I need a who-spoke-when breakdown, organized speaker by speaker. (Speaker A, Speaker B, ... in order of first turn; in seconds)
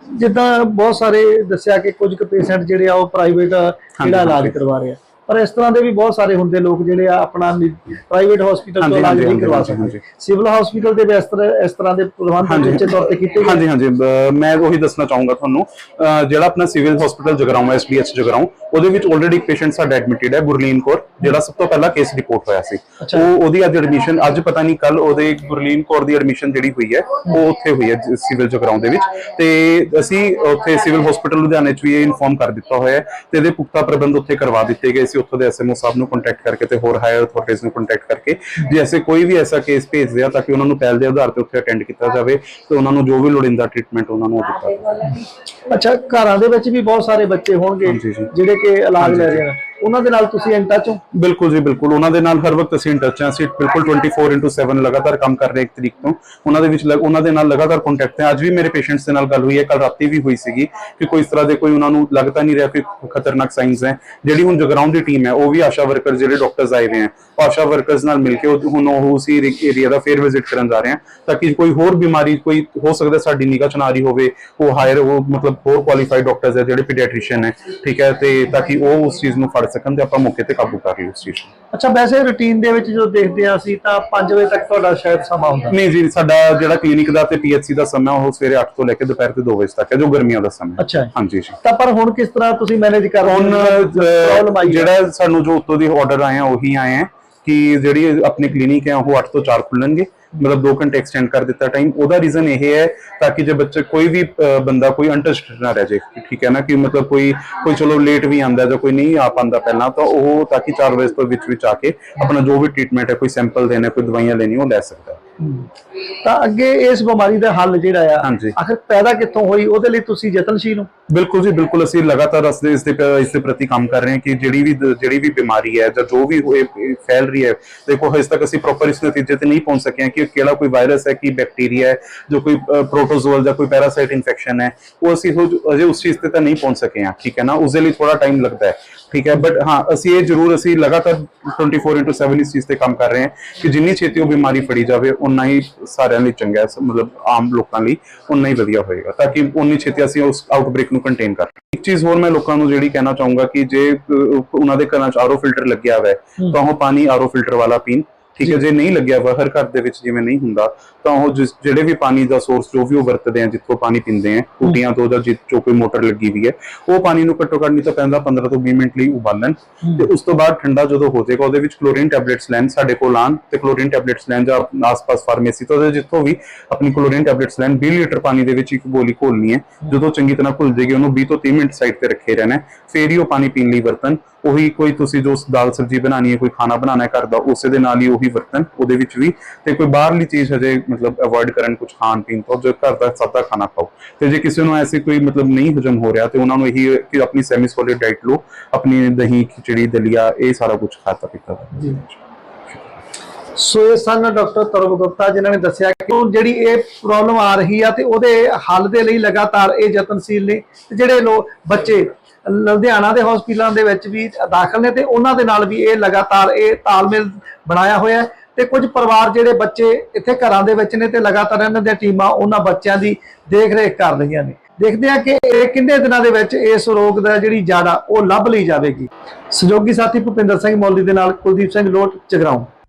Speaker A: 0.2-13.6, 23.0-23.3, 45.7-51.0, 81.7-85.8, 90.8-91.1, 91.6-94.9, 115.4-115.7, 116.2-120.9, 203.6-232.7
Speaker B: 4.0-4.5, 8.8-10.0, 12.5-12.9, 13.4-45.1, 47.9-48.3, 49.0-49.5, 51.1-81.5, 85.7-91.6, 93.2-115.2, 118.2-118.5, 121.1-202.1